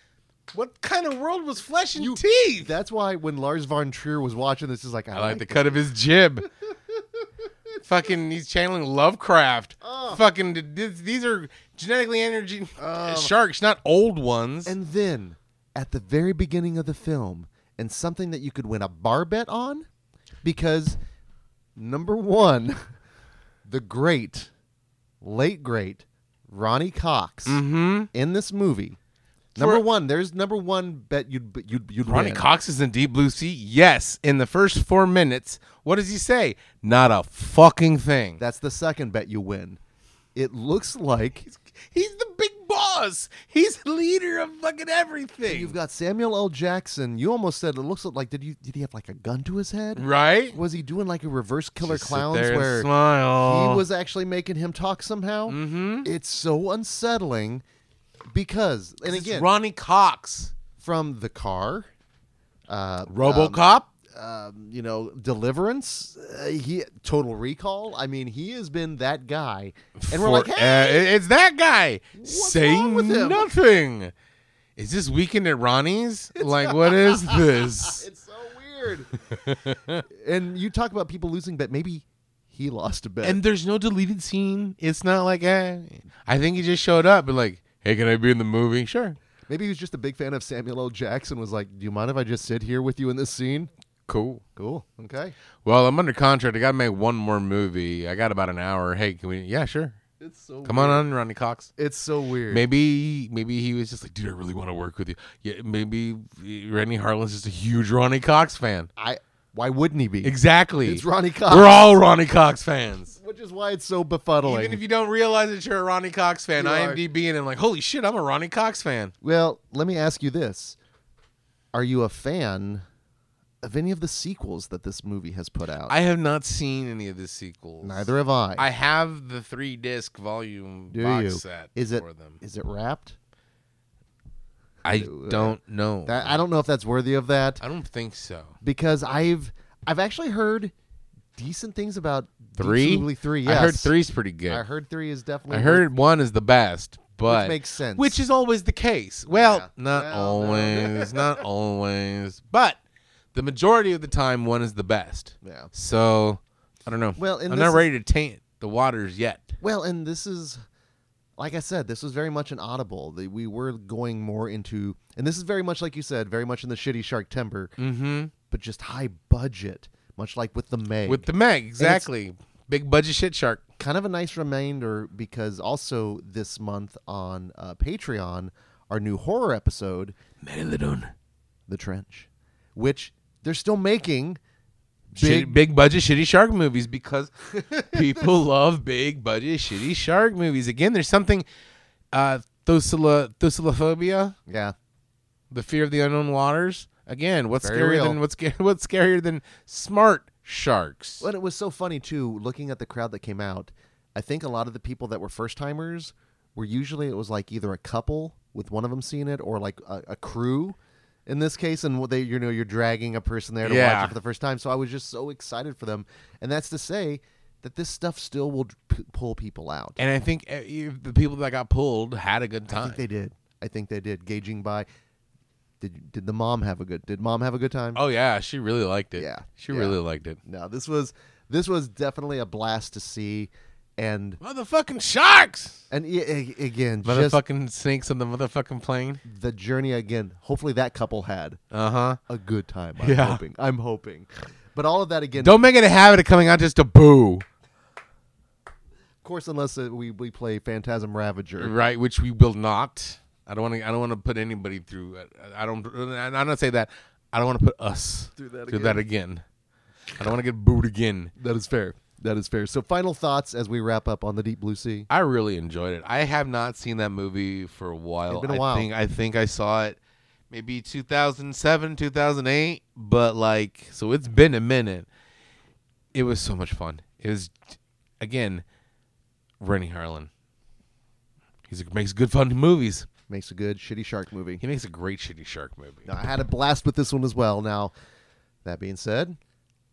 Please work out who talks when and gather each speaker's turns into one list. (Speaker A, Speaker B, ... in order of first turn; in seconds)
Speaker A: 0.5-2.7, 5.1-6.5, 7.8-14.7, 27.5-28.1, 29.6-29.8, 32.1-38.4, 41.5-45.7, 50.0-50.6, 51.8-53.8, 55.5-56.1, 59.0-60.5, 63.1-63.9, 70.0-74.1, 74.8-78.0, 79.3-80.0, 83.2-89.2, 94.1-94.4, 95.6-100.0, 100.6-101.7, 102.5-108.9, 110.2-113.2, 114.4-119.1, 125.9-132.4, 134.8-136.4, 137.6-138.5, 142.6-144.6, 145.5-152.8, 153.3-159.5, 167.8-168.3, 171.1-173.6, 180.4-181.1, 185.2-191.4, 192.1-194.4, 195.5-201.2, 213.6-214.1, 220.0-223.0, 227.9-230.4, 234.4-235.8, 237.0-239.2, 241.7-242.2, 243.0-243.4, 245.4-247.4, 251.6-259.4, 260.1-261.3, 265.1-270.0, 270.5-275.1, 276.1-277.5, 278.2-278.6, 279.6-280.3, 281.7-283.1, 284.6-286.1
Speaker B: 1.9-5.8, 9.8-10.2, 12.8-13.3, 14.6-19.9, 20.4-21.0, 21.8-22.8, 23.6-24.5, 25.2-27.6, 28.1-29.0, 29.6-32.4, 38.4-39.8, 40.3-41.4, 45.4-57.6, 58.3-59.5, 60.8-61.9, 62.7-71.1, 72.2-73.5, 76.4-79.6, 80.1-83.4, 89.5-93.7, 94.5-95.3, 100.2-101.0, 101.8-102.6, 109.0-112.0, 113.2-114.8, 116.6-117.0, 119.2-120.8, 121.7-122.8, 123.6-125.9, 127.8-128.7, 130.9-133.2, 134.9-137.6, 138.6-140.7, 141.4-143.9, 144.5-145.9, 147.2-148.2, 149.3-151.4, 155.4-155.7, 157.2-157.9, 159.6-160.6, 161.4-167.7, 168.5-171.3, 171.8-172.1, 173.8-180.2, 181.7-184.4, 185.1-185.6, 187.5-188.3, 194.5-194.7, 197.6-198.2, 201.2-220.0, 222.7-224.9, 225.8-228.0, 229.2-234.4, 235.9-237.4, 239.2-241.6, 242.3-245.6, 249.2-251.7, 258.4-259.0, 261.4-265.1, 268.3-268.9, 283.3-284.6, 286.1-287.9, 288.6-289.4